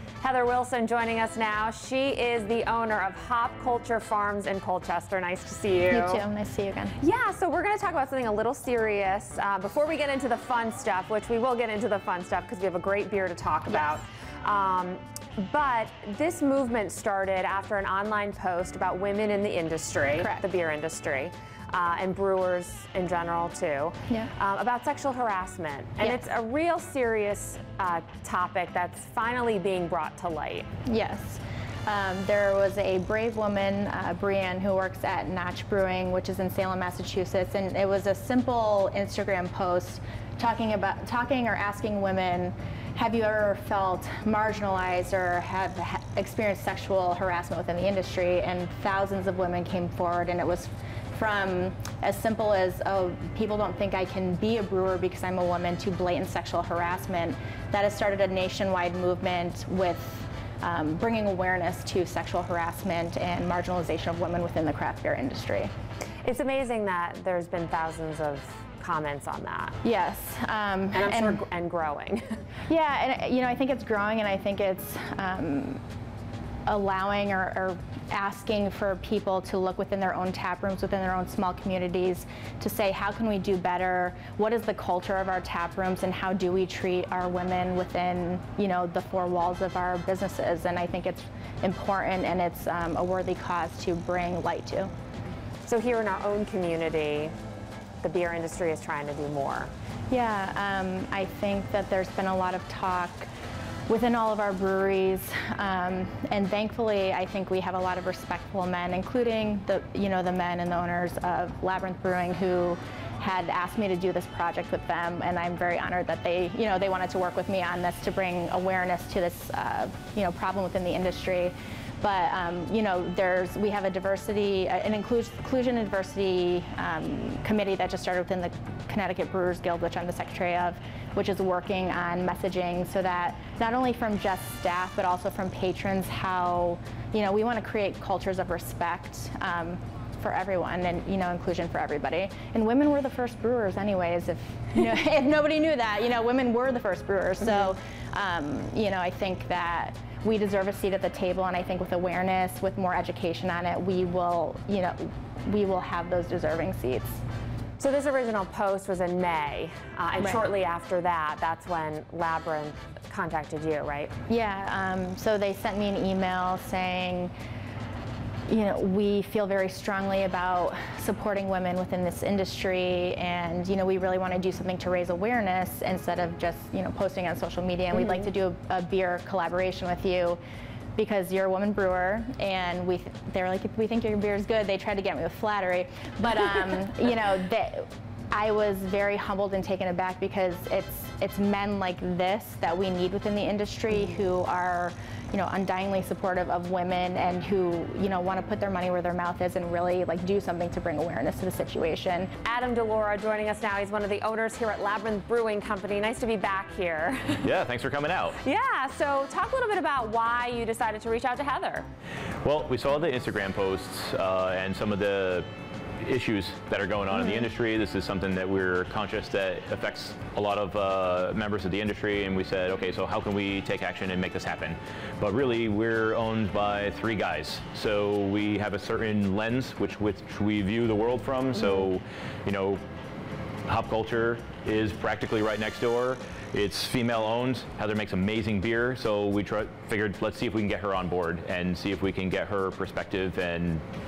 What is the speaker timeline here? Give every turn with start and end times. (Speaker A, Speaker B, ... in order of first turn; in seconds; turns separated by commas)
Speaker A: 0.2-6.2, Speaker B: 5.9-7.0, Speaker A: 7.0-30.7, Speaker B: 20.2-20.4, Speaker B: 30.9-65.7, Speaker A: 66.2-69.8, Speaker B: 69.8-71.4, Speaker A: 70.9-72.4, Speaker B: 72.7-75.8, Speaker B: 76.7-94.9, Speaker A: 95.6-97.3, Speaker A: 98.0-99.7, Speaker B: 100.1-103.3, Speaker B: 103.9-157.2, Speaker A: 157.8-164.1, Speaker B: 164.3-167.3, Speaker B: 168.5-180.4, Speaker B: 180.9-202.3, Speaker A: 202.4-207.5, Speaker C: 207.4-208.4, Speaker A: 208.4-211.9, Speaker C: 212.4-215.5, Speaker C: 216.0-232.8, Speaker C: 233.7-243.8